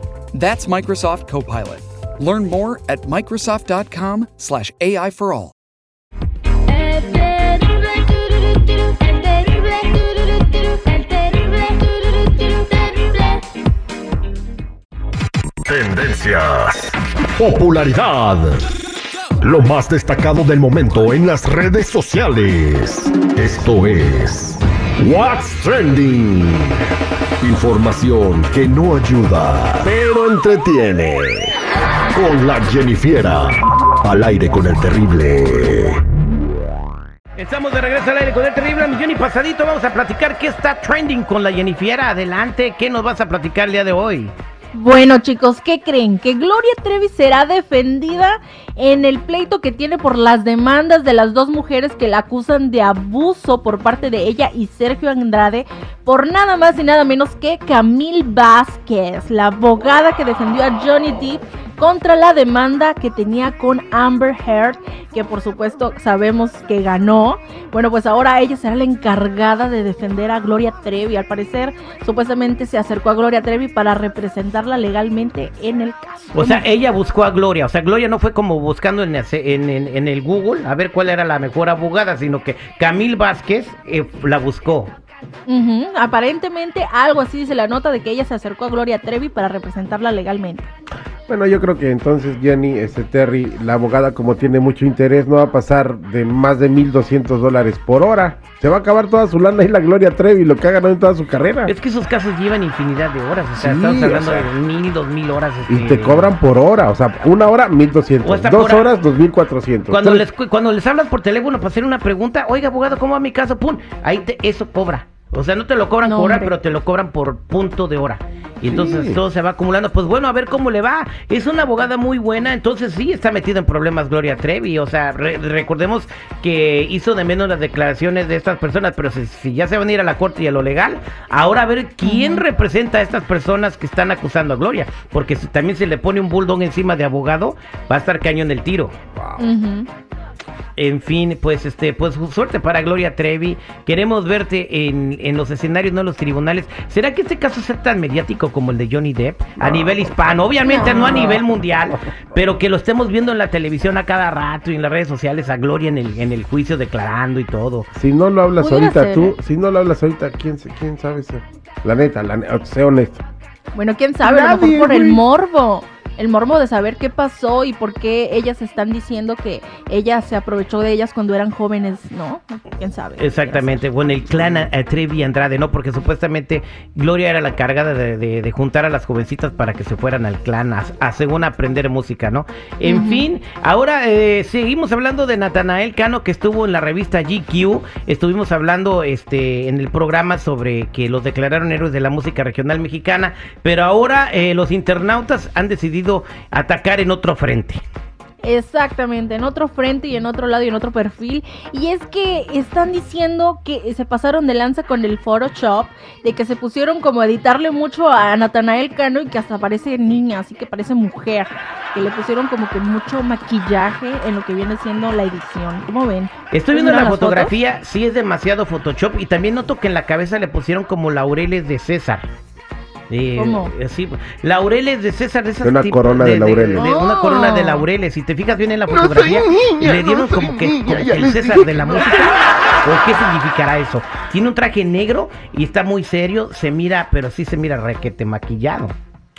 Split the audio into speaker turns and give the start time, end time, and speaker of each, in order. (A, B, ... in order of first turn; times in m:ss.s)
0:00.3-0:05.5 A
0:06.7-0:13.3 B
0:15.7-0:18.6 C
0:19.4-0:26.6 C
0:25.0-0:26.2 D
0:27.4-0:29.9 C
0:29.8-0:31.5 D
0:32.1-0:33.5 C
0:34.0-0:35.9 C
0:34.9-0:35.8 D
0:37.4-0:44.3 E
0:44.7-1:16.6 B
1:16.3-1:24.9 E
1:25.5-1:30.7 B
1:31.3-1:41.7 D
1:41.7-1:46.3 E
1:43.6-1:44.5 D
1:45.7-1:50.2 D
1:48.2-1:48.9 E
1:49.9-2:19.0 E
1:56.0-1:56.5 B
1:58.7-1:59.2 D
2:12.0-2:12.4 B
2:19.2-2:19.5 D
2:19.4-2:19.9 B
2:20.8-2:37.9 E
2:29.6-2:31.4 D
2:30.7-2:31.4 B
2:37.9-2:43.2 D
2:38.6-2:39.3 B
2:43.7-2:53.8 B
2:44.2-2:45.2 D
2:53.2-3:17.8 E
3:02.8-3:03.2 B
3:18.4-3:37.5 B
3:36.5-3:42.2 E
3:43.1-3:59.0 E
3:43.4-3:43.7 B
3:45.6-3:46.9 D
3:46.8-3:47.8 B
3:48.9-3:51.6 D